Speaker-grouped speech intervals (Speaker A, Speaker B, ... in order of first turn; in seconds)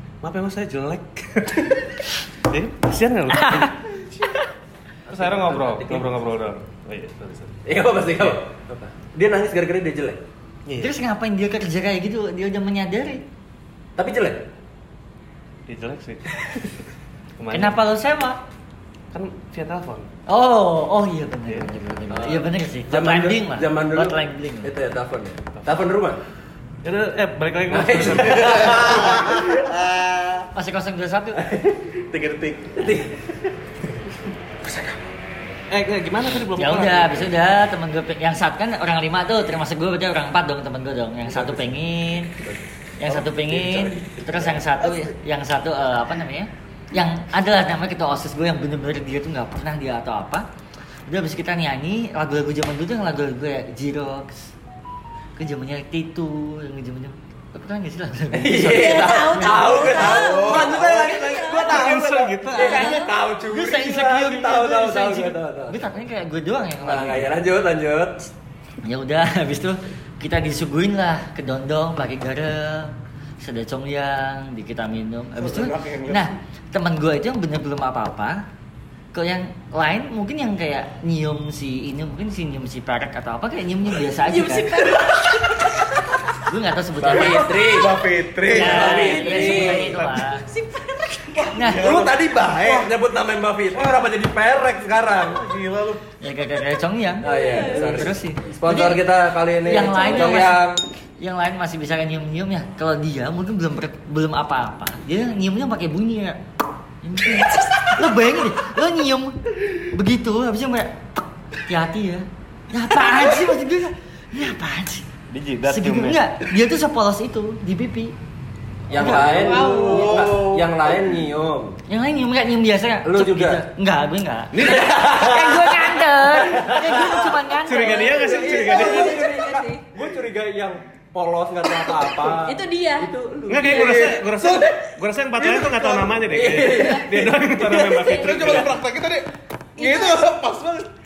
Speaker A: 0.2-3.7, 5.1-8.4, 10.7-10.9, 15.7-16.7, 17.4-17.8, 19.1-20.1, 26.8-29.1, 35.7-37.3, 61.6-62.8, 115.3-116.2, 124.5-125.2, 127.6-129.2, 133.5-138.7
Speaker B: 3.3-3.7, 10.8-13.2, 17.5-18.4, 20.3-24.7, 30.5-31.4, 36.5-42.3, 43.0-50.4, 51.1-54.5, 55.4-59.9, 62.6-67.3, 68.8-78.4, 79.1-84.7, 86.5-87.6, 88.5-90.5, 91.5-92.1, 96.2-99.0, 99.6-100.6, 101.2-106.4, 107.0-115.1, 115.7-118.1, 119.0-119.4, 121.9-128.4
Speaker C: 5.1-6.1, 7.7-10.2, 14.0-14.4, 22.1-26.2, 27.7-29.7, 31.4-31.9, 32.8-33.5, 41.3-41.7, 42.4-45.1, 58.3-65.9, 66.8-68.2, 87.0-88.0, 88.5-90.0, 91.8-95.4, 97.2-100.8, 118.9-121.8, 123.0-123.6, 124.6-134.1, 136.3-138.6
Speaker D: 28.8-30.5, 32.1-32.8, 59.8-61.3, 75.4-76.2, 87.6-89.7, 91.3-92.9, 93.7-94.1, 95.2-96.0, 119.2-121.1, 133.7-134.7, 135.3-136.2, 138.1-140.9
Speaker E: 58.6-61.8, 62.5-63.1, 84.2-86.1, 89.0-89.5, 90.0-91.5, 97.2-98.0, 99.9-100.5, 119.0-120.3, 128.1-129.9, 132.1-133.1, 133.7-134.1, 136.6-137.1, 138.0-138.5, 139.8-140.2